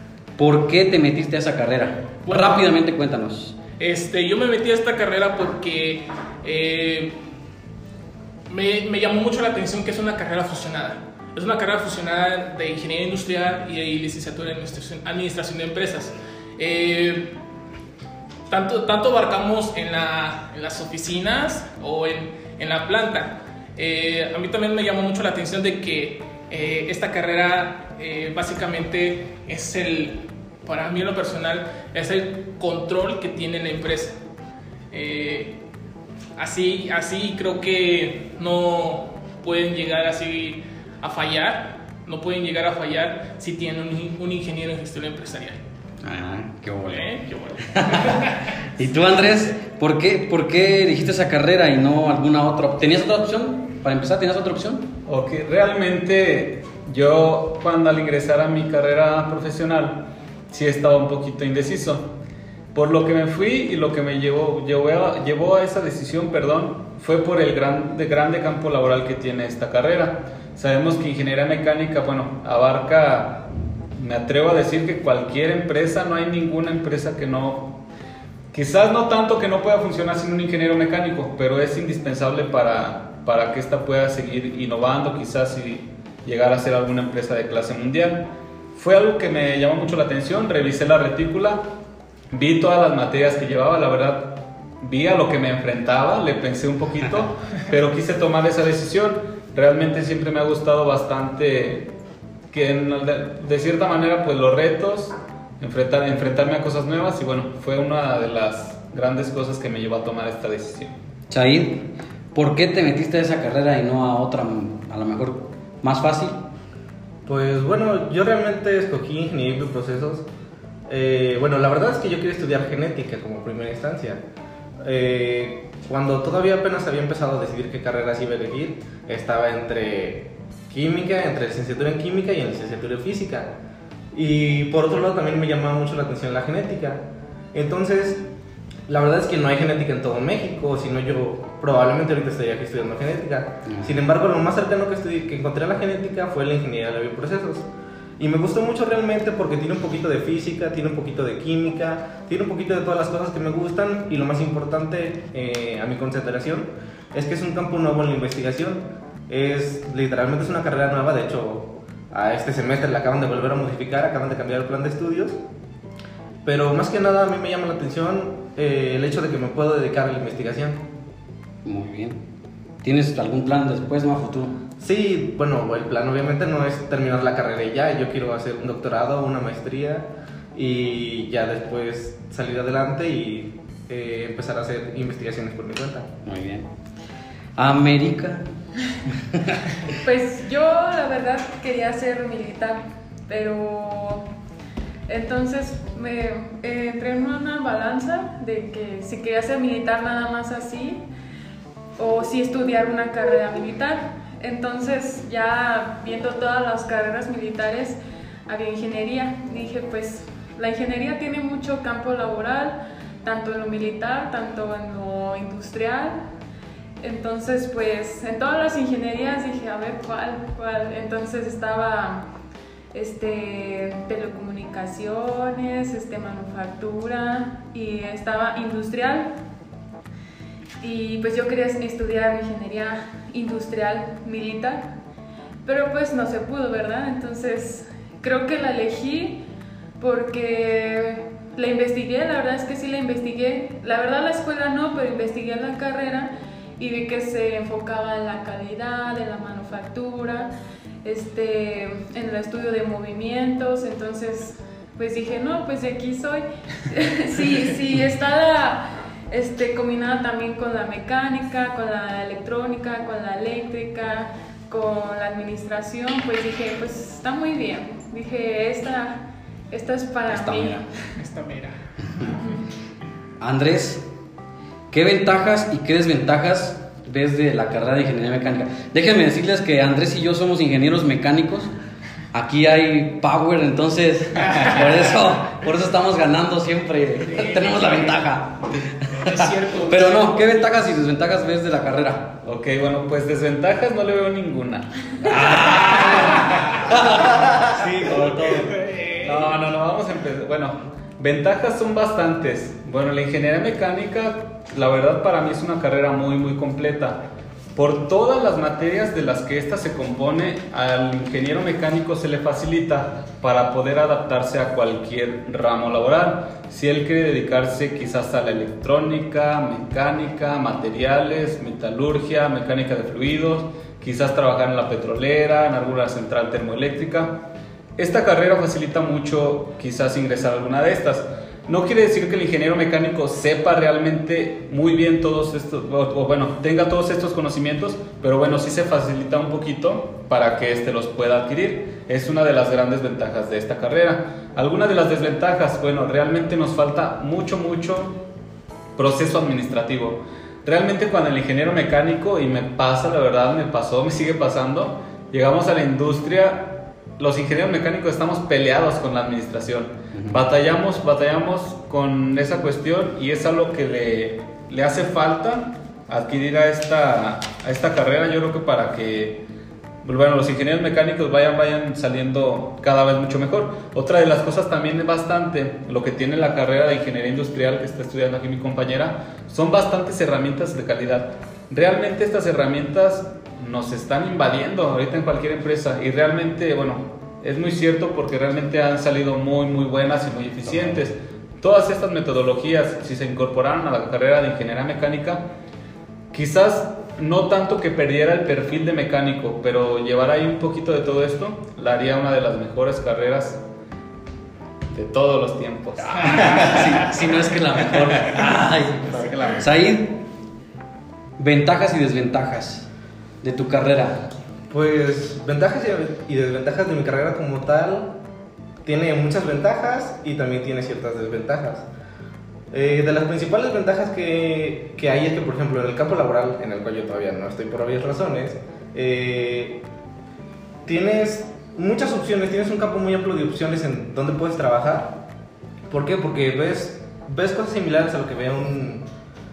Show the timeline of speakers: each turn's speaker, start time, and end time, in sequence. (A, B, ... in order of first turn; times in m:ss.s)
0:00.4-0:03.6 A
0:02.2-0:02.7 B
0:03.8-0:07.1 B
0:08.5-0:17.3 B
0:18.5-0:34.2 B
0:34.9-0:35.6 B
0:36.4-0:45.6 B
0:46.0-0:47.1 A
0:46.9-0:48.6 B
0:47.6-0:54.9 A
0:55.1-1:02.1 C
1:02.7-1:17.8 C
1:18.5-1:31.6 C
1:32.3-1:41.9 C
1:42.5-1:50.9 C
1:51.3-1:56.4 A
1:57.2-2:00.2 D
2:00.9-2:04.2 D
2:04.8-2:13.5 D
2:14.1-2:18.2 D
2:18.9-2:27.7 D
2:23.7-2:23.9 A
2:28.2-2:45.4 D
2:46.4-2:50.8 D
2:51.6-2:52.2 A
2:52.8-2:54.6 A
2:54.8-3:06.1 D
3:06.2-3:06.7 A
3:07.6-3:08.5 A
3:09.1-3:09.7 A
3:10.0-3:14.3 E
3:15.1-3:21.0 E
3:22.0-3:36.2 E
3:37.0-3:42.2 E
3:42.9-3:49.3 E
3:50.8-3:54.9 E
3:55.6-3:59.4 E
4:00.0-4:10.5 E
4:11.0-4:30.8 E
4:30.3-4:30.8 A
4:31.2-4:32.6 B
4:33.4-4:34.1 A
4:34.9-4:41.7 A
4:42.3-4:52.4 A
4:47.3-4:48.1 B
4:49.2-4:50.6 B
4:52.4-4:57.1 C
4:55.2-4:58.7 A
4:55.5-4:56.9 B
4:58.0-5:07.2 C
4:58.1-4:59.6 B
5:07.7-5:27.4 C
5:28.0-5:48.2 C
5:48.9-6:09.4 C
6:00.1-6:00.4 A
6:10.0-6:35.4 C
6:36.3-6:43.6 C
6:44.9-6:47.1 C
6:46.1-6:47.1 B
6:46.3-6:50.2 A
6:47.8-6:49.7 C
6:51.4-6:52.9 A
6:53.4-6:54.3 A
6:54.7-6:58.1 D
6:58.8-7:01.8 D
7:02.7-7:09.8 D
7:10.8-7:15.2 D
7:15.9-7:19.1 D